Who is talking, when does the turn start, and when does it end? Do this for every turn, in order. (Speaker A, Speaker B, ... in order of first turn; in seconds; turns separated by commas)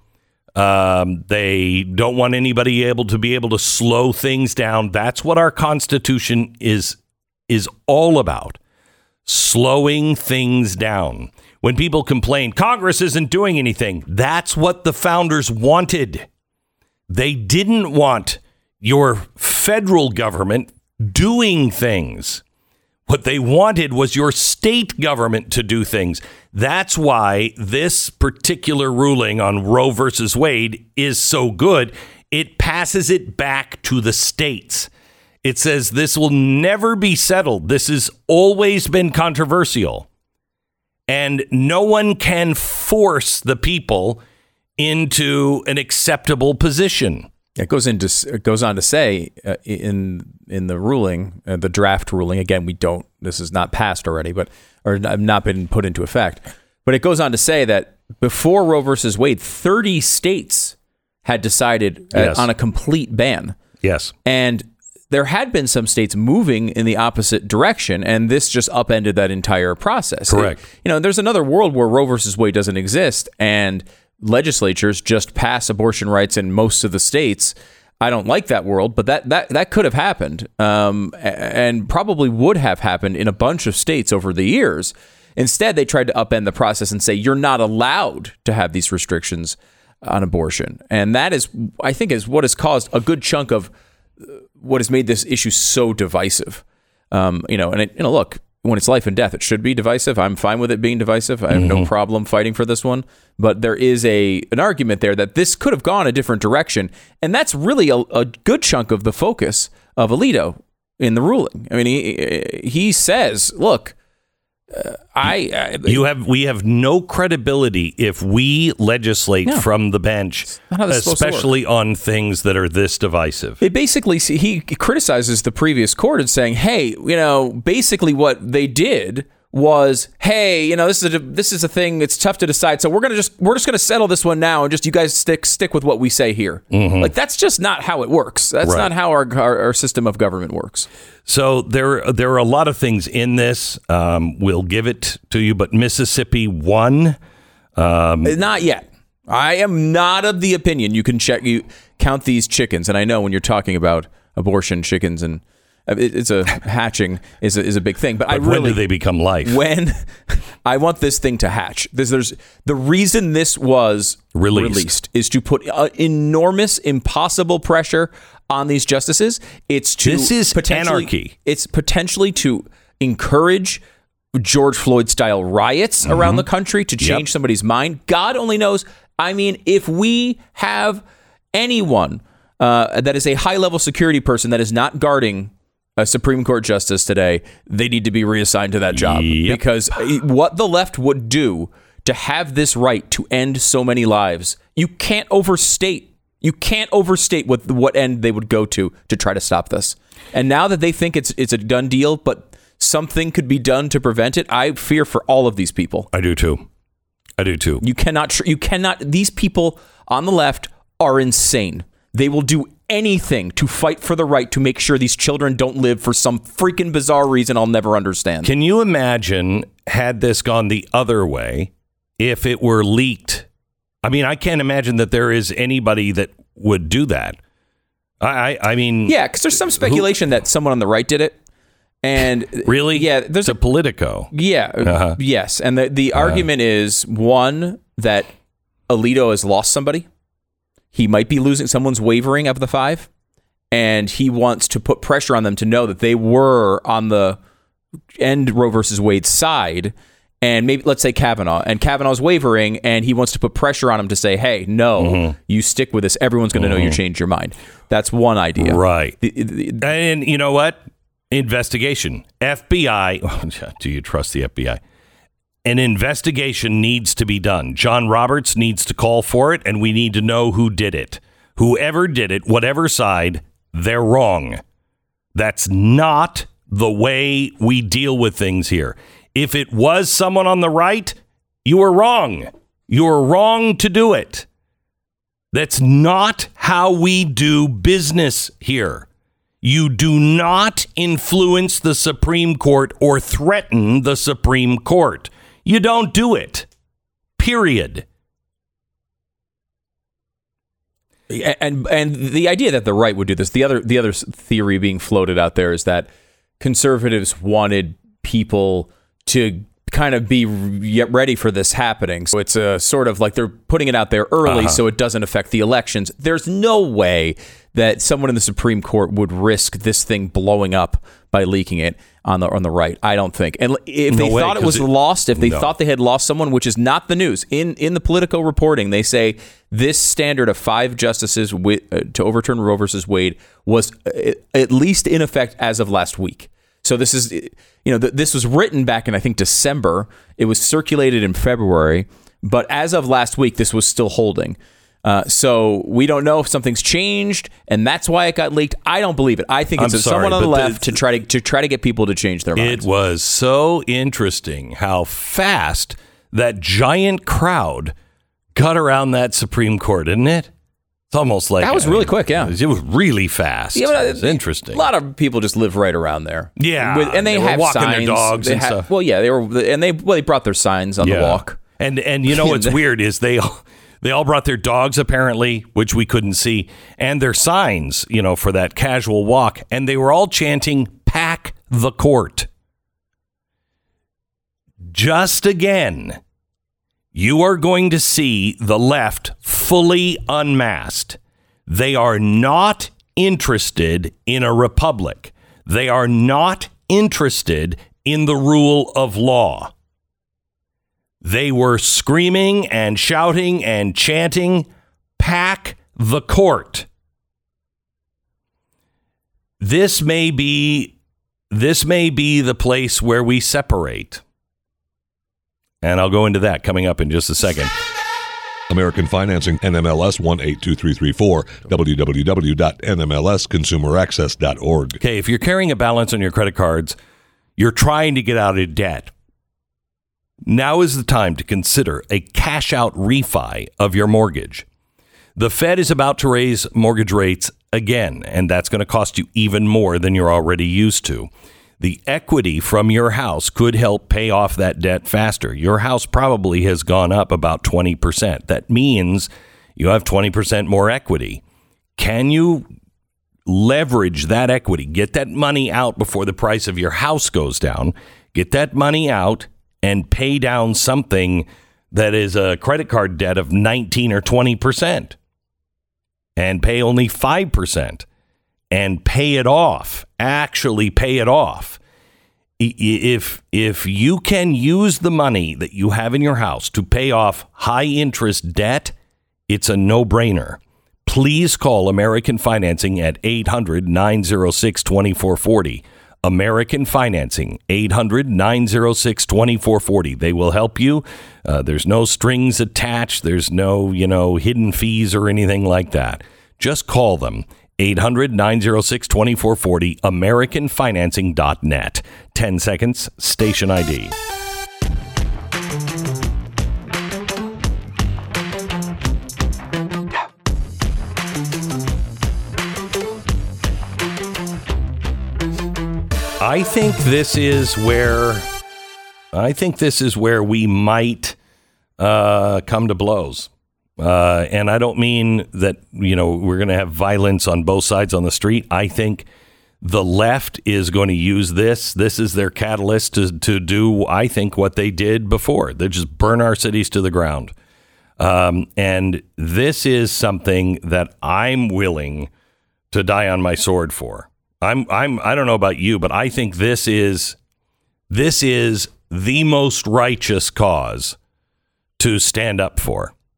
Speaker A: 0.6-8.6, Speaker A: 9.2-16.2, Speaker A: 17.1-22.4, Speaker A: 23.1-34.9, Speaker A: 35.4-40.1, Speaker A: 41.1-44.2, Speaker A: 44.8-47.3, Speaker B: 47.6-63.6, Speaker A: 62.1-62.5, Speaker A: 63.8-64.1, Speaker B: 64.2-113.9, Speaker A: 70.3-70.6, Speaker A: 101.5-101.9, Speaker B: 114.7-116.0, Speaker A: 115.8-123.6, Speaker B: 120.5-121.5, Speaker B: 123.6-140.9, Speaker A: 136.7-137.1, Speaker A: 138.6-138.9, Speaker A: 141.2-147.2, Speaker A: 147.8-148.4, Speaker B: 148.2-158.8, Speaker A: 158.3-159.6, Speaker B: 159.4-173.8, Speaker A: 164.3-164.9, Speaker A: 170.0-171.3, Speaker B: 174.3-181.0, Speaker A: 176.0-176.4, Speaker B: 181.5-206.1, Speaker A: 188.9-189.6, Speaker A: 206.1-206.6, Speaker A: 207.4-207.8, Speaker B: 207.8-218.5, Speaker A: 218.4-223.4, Speaker A: 224.0-227.4, Speaker A: 228.2-230.1, Speaker B: 229.1-231.4, Speaker B: 232.0-233.6, Speaker A: 232.6-234.3, Speaker B: 234.3-238.3, Speaker A: 234.8-235.2, Speaker A: 236.1-236.4, Speaker B: 238.9-240.1, Speaker B: 240.9-243.1, Speaker B: 243.7-247.4, Speaker B: 248.1-259.9, Speaker A: 255.0-255.3, Speaker A: 256.5-257.0, Speaker A: 258.6-259.2, Speaker A: 259.8-264.8, Speaker A: 265.6-274.6, Speaker A: 275.3-284.4, Speaker A: 285.5-289.1, Speaker A: 289.6-296.6, Speaker A: 297.4-298.0, Speaker B: 301.3-306.1, Speaker B: 306.6-352.9, Speaker A: 314.4-314.8, Speaker A: 324.1-325.7, Speaker A: 349.8-351.0, Speaker A: 352.6-357.9, Speaker A: 358.5-360.5, Speaker A: 361.1-364.8, Speaker B: 361.6-362.6, Speaker B: 363.7-371.6, Speaker A: 366.6-368.9, Speaker A: 371.0-382.5, Speaker B: 372.3-372.8, Speaker A: 384.9-386.2, Speaker A: 387.1-399.7, Speaker A: 401.2-404.7, Speaker A: 405.2-406.9, Speaker A: 409.6-410.9, Speaker A: 411.5-414.2, Speaker A: 415.8-417.7, Speaker C: 418.7-425.0, Speaker A: 425.0-426.9, Speaker A: 427.6-429.1, Speaker A: 430.4-434.6, Speaker A: 435.4-451.4, Speaker A: 452.0-452.6, Speaker A: 453.5-465.1, Speaker A: 466.4-468.0, Speaker A: 468.7-471.8, Speaker A: 472.6-478.9, Speaker A: 479.5-504.1, Speaker A: 516.4-518.5, Speaker A: 519.3-521.4, Speaker A: 522.0-529.3, Speaker A: 529.8-537.5, Speaker A: 538.2-542.3, Speaker A: 542.9-547.4, Speaker A: 548.1-551.1, Speaker A: 552.0-553.1